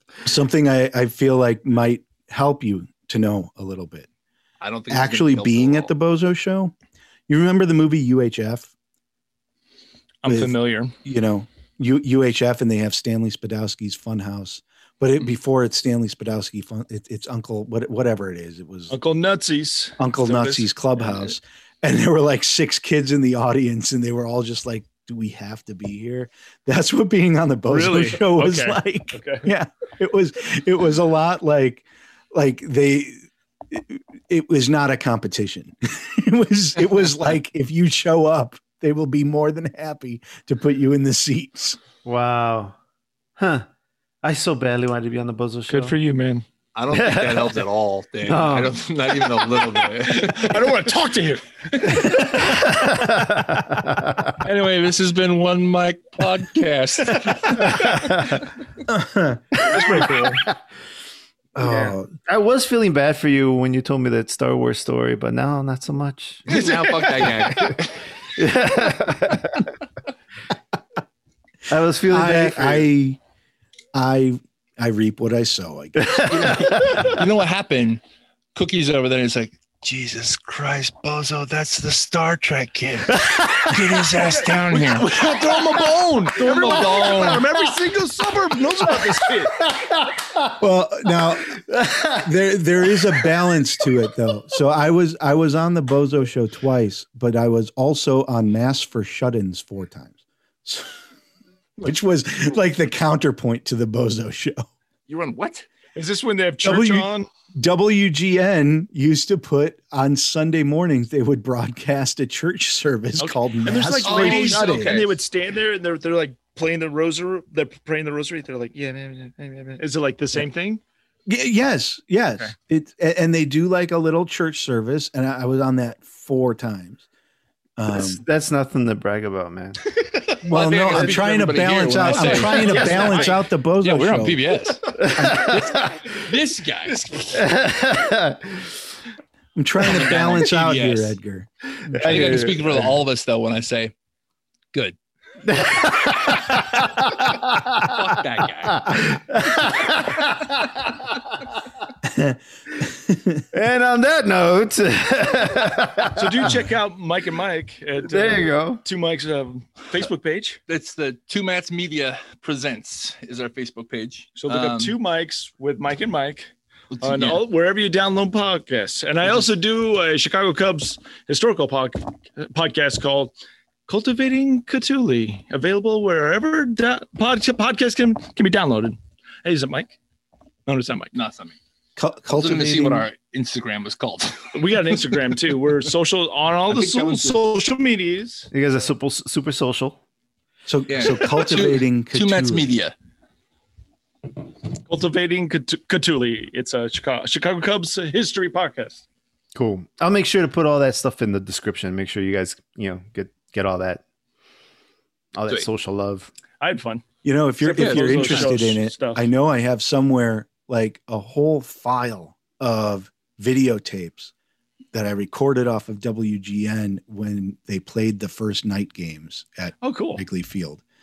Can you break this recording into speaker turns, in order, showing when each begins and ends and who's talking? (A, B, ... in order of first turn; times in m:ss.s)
0:00.2-0:04.1 A
0:04.6-0:05.9 B
0:04.9-0:06.7 A
0:07.3-0:08.7 A
0:10.2-0:10.9 C
0:10.3-0:19.0 A
0:18.9-0:20.7 C
0:20.0-0:41.8 A
0:27.7-0:29.5 C
0:42.0-0:42.8 D
0:43.4-0:43.7 D
0:44.2-0:46.0 D
0:45.7-0:46.5 C
0:46.8-0:50.8 B
0:46.9-0:47.5 D
0:48.3-0:48.8 D
0:50.1-0:52.2 C
0:51.8-0:52.2 B
0:52.5-0:54.3 D
0:54.4-0:58.4 B
0:58.9-0:59.6 A
0:59.6-1:00.5 C
1:01.6-1:02.1 A
1:01.6-1:07.7 D
1:06.5-1:08.0 B
1:08.4-1:09.7 D
1:11.7-1:12.9 D
1:12.1-1:13.2 A
1:13.9-1:16.6 A
1:16.0-1:17.0 D
1:16.3-1:18.0 B
1:18.6-1:27.8 B
1:23.3-1:23.8 D
1:24.5-1:29.7 C
1:29.8-1:30.2 D
1:30.4-1:41.0 A
1:31.7-1:32.2 D
1:41.8-1:44.7 A
1:45.1-1:45.7 B
1:46.0-1:47.3 C
1:46.6-1:55.0 A
1:53.2-2:00.8 C
1:54.0-1:55.2 B
2:01.3-2:07.0 A
2:07.8-2:08.2 A
2:07.9-2:09.8 D
2:10.4-2:17.1 B
2:10.4-2:14.4 A
2:11.8-2:13.4 C
2:15.0-2:15.9 D
2:15.2-2:15.5 A
2:17.3-2:18.7 D
2:19.6-2:21.5 A
2:19.8-2:21.2 B
2:21.8-2:22.7 D
2:22.0-2:23.9 B
2:22.1-2:22.9 A
2:25.4-2:28.0 D
2:27.8-2:29.2 B
2:28.7-2:31.2 D
2:32.0-2:33.4 A
2:33.5-2:36.5 D
2:36.2-2:40.6 C
2:38.0-2:38.8 D
2:40.7-2:45.0 B
2:44.4-2:46.5 C
2:46.9-2:47.4 B
2:47.0-2:53.4 C
2:53.9-3:00.0 C
3:00.7-3:01.1 C
3:01.1-3:01.6 B
3:02.0-3:03.1 A
3:02.3-3:05.0 B
3:04.6-3:08.5 C
3:06.7-3:07.4 B
3:08.5-3:10.0 D
3:10.7-3:12.7 A
3:10.9-3:12.9 B
3:14.9-3:19.0 C
3:19.6-3:24.0 D
3:25.4-3:26.3 D
3:26.6-3:27.0 C
3:27.2-3:34.3 A
3:27.6-3:29.3 C
3:27.8-3:28.6 B
3:34.9-3:40.8 A
3:39.8-3:40.2 C